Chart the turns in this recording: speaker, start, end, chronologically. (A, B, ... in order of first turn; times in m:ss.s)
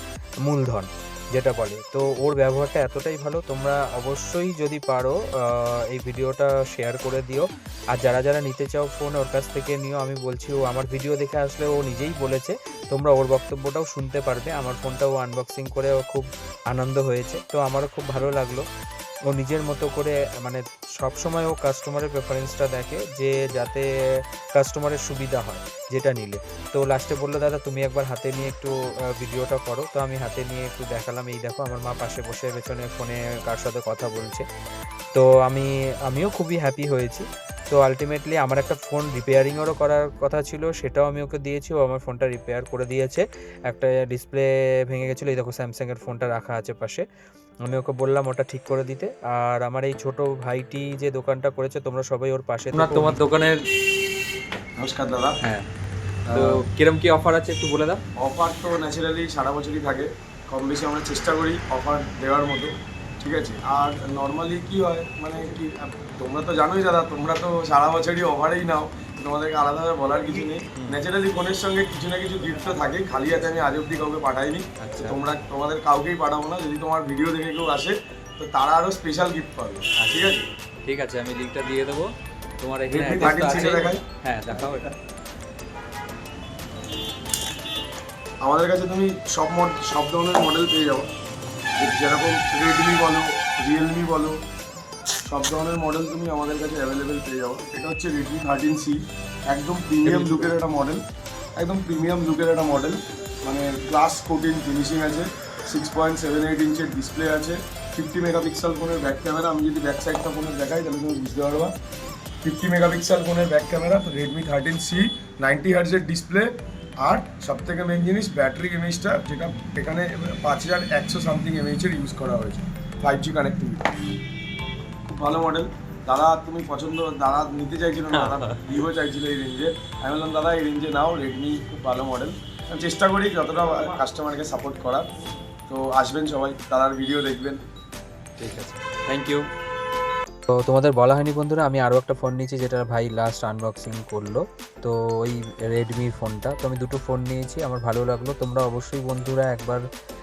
0:00.4-0:18.6 A
0:19.3-0:23.9 A
0:24.6-0:34.4 A
0:35.2-0:47.0 A
0:47.7-0:53.2 A
0:52.7-0:53.6 B
0:54.8-0:55.4 C
0:55.4-0:55.7 B
0:56.3-0:58.0 B
0:58.2-1:20.5 C
1:14.8-1:15.2 B
1:20.0-1:24.9 B
1:22.9-1:24.0 C
1:28.4-1:31.1 C
1:31.8-1:34.4 C
1:35.3-1:41.0 C
1:40.0-1:40.5 B
1:41.6-1:51.7 C
1:52.4-2:03.9 C
2:05.1-2:15.0 C
2:08.1-2:08.6 B
2:15.7-2:17.6 C
2:18.4-2:19.4 B
2:20.5-2:29.8 A